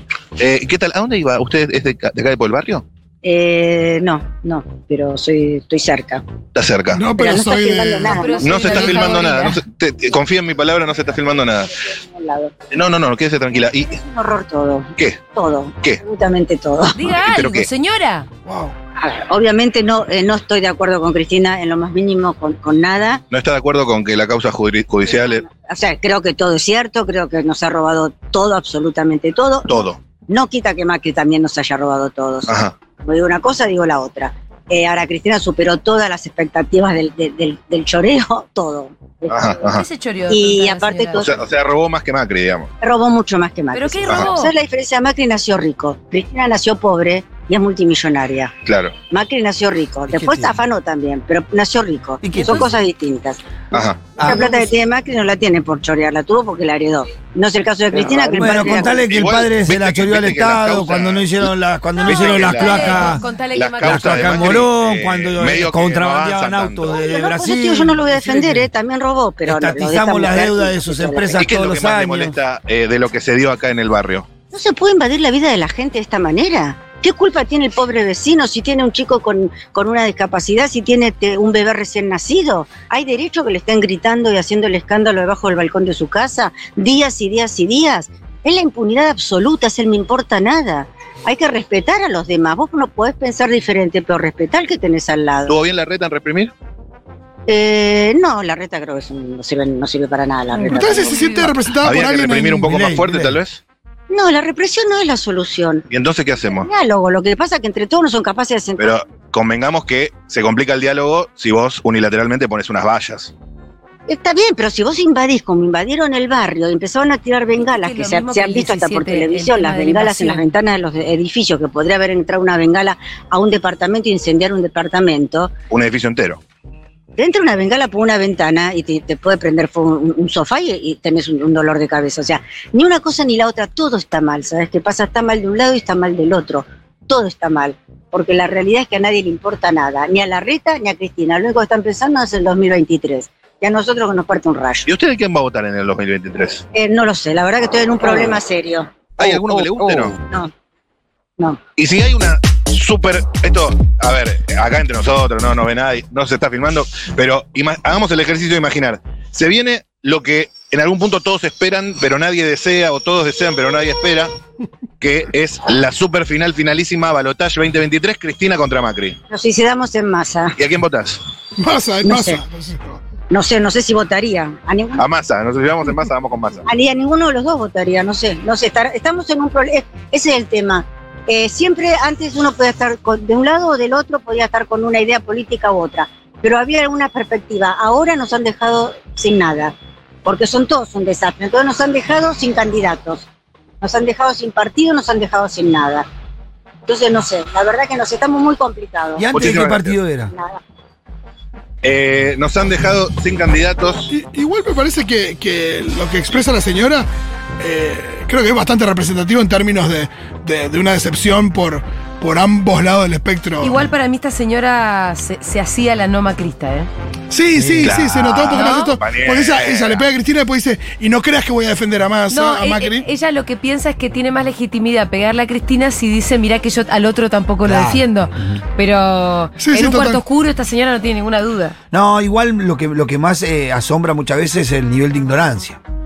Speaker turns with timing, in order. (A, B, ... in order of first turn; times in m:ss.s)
0:00.4-0:02.8 A
0:03.2-0:06.2 B
0:06.5-0:07.1 A
0:06.9-0:09.1 C
0:07.1-0:08.9 B
0:08.0-0:09.6 D
0:08.4-0:11.7 A
0:11.9-0:12.5 B
0:12.7-0:14.0 A
0:13.5-0:17.0 B
0:16.9-0:18.3 D
0:17.2-0:17.7 A
0:18.4-0:18.7 C
0:19.0-0:23.2 B
0:23.3-0:25.4 A
0:25.0-0:39.6 B
0:29.7-0:30.0 A
0:32.5-0:32.7 A
0:39.3-0:39.8 A
0:39.6-0:41.3 D
0:40.3-0:41.3 B
0:41.2-0:42.7 A
0:42.8-0:48.5 B
0:43.7-0:44.5 D
0:48.6-0:48.9 A
0:49.1-0:59.1 B
0:50.1-0:50.6 E
0:52.2-0:52.7 E
0:53.7-0:54.2 A
0:54.2-0:54.4 E
0:58.3-1:03.2 E
0:59.1-1:01.5 A
1:02.0-1:04.6 D
1:02.0-1:07.0 A
1:03.8-1:08.7 E
1:07.1-1:11.5 B
1:09.4-1:12.4 E
1:11.4-1:14.2 A
1:14.5-1:35.6 B
1:35.5-1:36.5 A
1:37.5-1:41.1 B
1:40.6-1:42.7 C
1:40.7-1:41.6 D
1:41.8-1:43.6 A
1:42.6-1:43.4 E
1:44.1-1:45.8 B
1:45.9-1:46.7 A
1:46.5-1:48.9 B
1:48.8-1:53.3 A
1:54.1-2:05.5 B
1:57.6-2:00.4 D
2:05.7-2:06.4 A
2:07.2-2:24.9 B
2:24.8-2:26.6 A
2:26.7-2:30.5 B
2:29.2-2:30.2 A
2:31.8-2:44.3 A
2:45.0-2:49.2 A
2:49.3-2:50.6 B
2:50.6-2:51.2 A
2:51.6-2:53.0 C
2:52.0-2:52.4 B
2:53.3-2:55.0 B
2:55.0-2:56.6 A
2:56.7-3:13.3 B
3:13.8-3:16.0 B
3:16.8-3:19.3 B
3:19.2-3:20.3 E
3:19.3-3:20.0 A
3:20.3-3:20.6 B
3:21.8-3:24.1 A
3:24.1-3:27.1 C
3:27.6-3:33.8 C
3:33.6-3:36.9 D
3:37.3-3:43.0 C
3:37.5-3:38.0 E
3:37.8-3:40.0 A
3:38.5-3:39.0 D
3:42.3-3:51.8 D
3:47.6-3:48.6 E
3:49.6-3:50.2 C
3:51.9-3:55.8 E